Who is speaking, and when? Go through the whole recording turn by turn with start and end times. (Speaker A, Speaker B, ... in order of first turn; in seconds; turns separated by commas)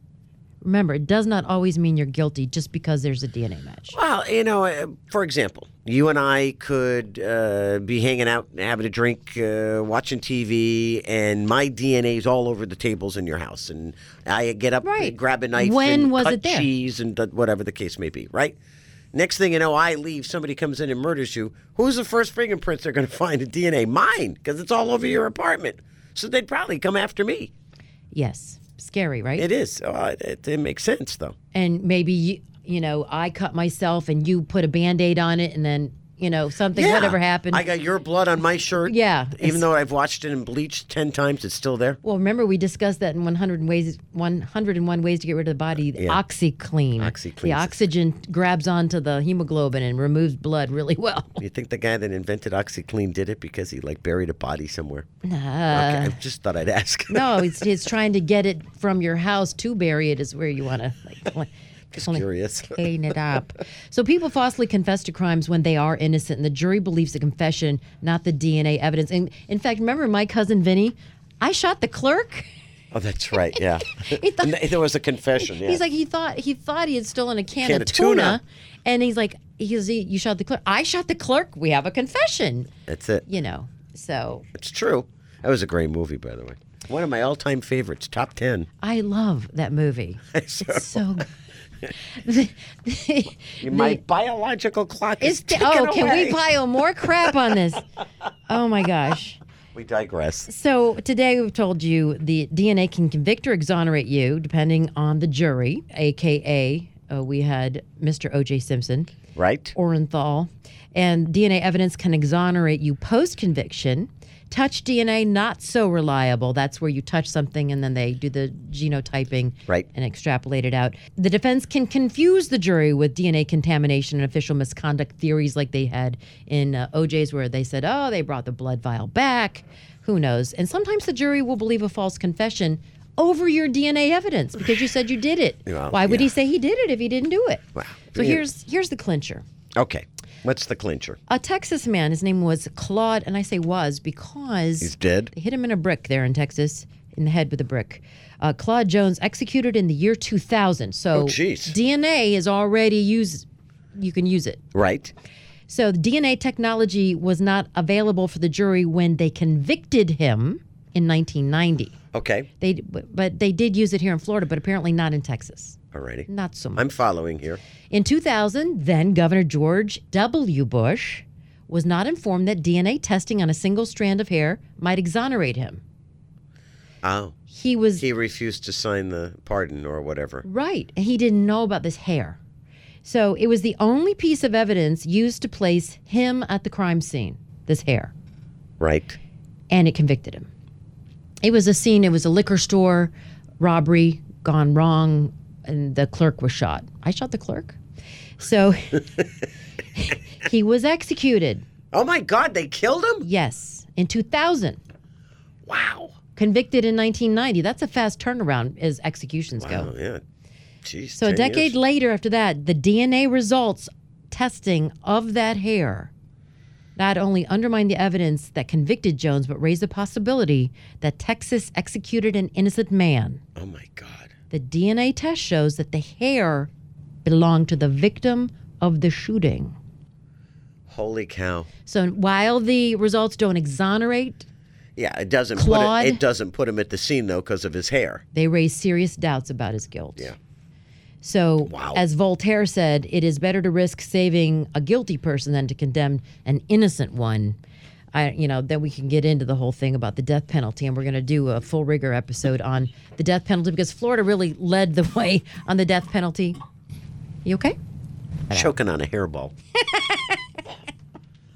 Speaker A: 0.6-4.0, Speaker B: 3.9-18.6, Speaker A: 14.8-16.7, Speaker B: 19.1-27.5, Speaker A: 28.1-29.5, Speaker B: 29.4-31.4, Speaker A: 31.5-37.6, Speaker B: 36.7-42.0, Speaker A: 38.9-39.6, Speaker A: 42.0-51.4, Speaker B: 46.0-46.2, Speaker B: 47.0-47.8, Speaker B: 51.4-55.1, Speaker A: 55.2-56.2, Speaker B: 55.7-57.6, Speaker A: 57.1-72.5, Speaker B: 61.9-62.8, Speaker B: 72.9-75.8, Speaker A: 73.9-74.5, Speaker A: 75.5-82.7, Speaker B: 77.6-78.4, Speaker B: 82.9-83.3, Speaker A: 83.3-84.5, Speaker B: 84.5-88.7, Speaker A: 88.8-91.3, Speaker B: 90.3-91.2, Speaker A: 92.1-94.0, Speaker B: 93.6-96.4, Speaker A: 95.2-97.8, Speaker A: 98.5-99.4, Speaker B: 99.7-100.5, Speaker A: 100.5-109.1, Speaker B: 109.3-109.8, Speaker A: 109.8-139.4, Speaker B: 135.7-136.3, Speaker B: 137.8-138.4, Speaker B: 139.8-141.2, Speaker A: 141.3-153.5, Speaker B: 144.8-145.3, Speaker B: 151.2-151.8, Speaker A: 154.0-154.6, Speaker B: 154.7-155.1, Speaker A: 155.7-161.9, Speaker B: 162.1-162.5, Speaker A: 162.6-165.8, Speaker B: 165.9-167.6, Speaker A: 166.3-166.8, Speaker A: 167.9-175.8, Speaker B: 177.0-177.3, Speaker A: 177.5-178.0, Speaker B: 178.0-180.4, Speaker A: 180.4-182.4, Speaker A: 183.0-188.1, Speaker B: 188.8-189.2, Speaker A: 189.7-190.5, Speaker A: 191.4-197.8, Speaker A: 198.4-199.2, Speaker A: 200.0-201.7, Speaker B: 201.9-203.3, Speaker A: 203.2-204.8, Speaker B: 205.7-206.2, Speaker A: 206.4-209.9, Speaker B: 209.6-210.2, Speaker B: 210.8-211.7, Speaker A: 211.2-216.1, Speaker A: 217.0-223.4, Speaker B: 223.6-224.3, Speaker A: 224.5-226.7, Speaker A: 227.2-229.8, Speaker B: 230.9-231.7, Speaker A: 231.9-234.5, Speaker B: 235.0-238.2, Speaker A: 235.6-236.2, Speaker A: 238.3-240.3, Speaker A: 241.2-247.6, Speaker B: 241.7-242.0, Speaker A: 248.1-256.6, Speaker A: 257.4-257.8, Speaker B: 258.5-259.5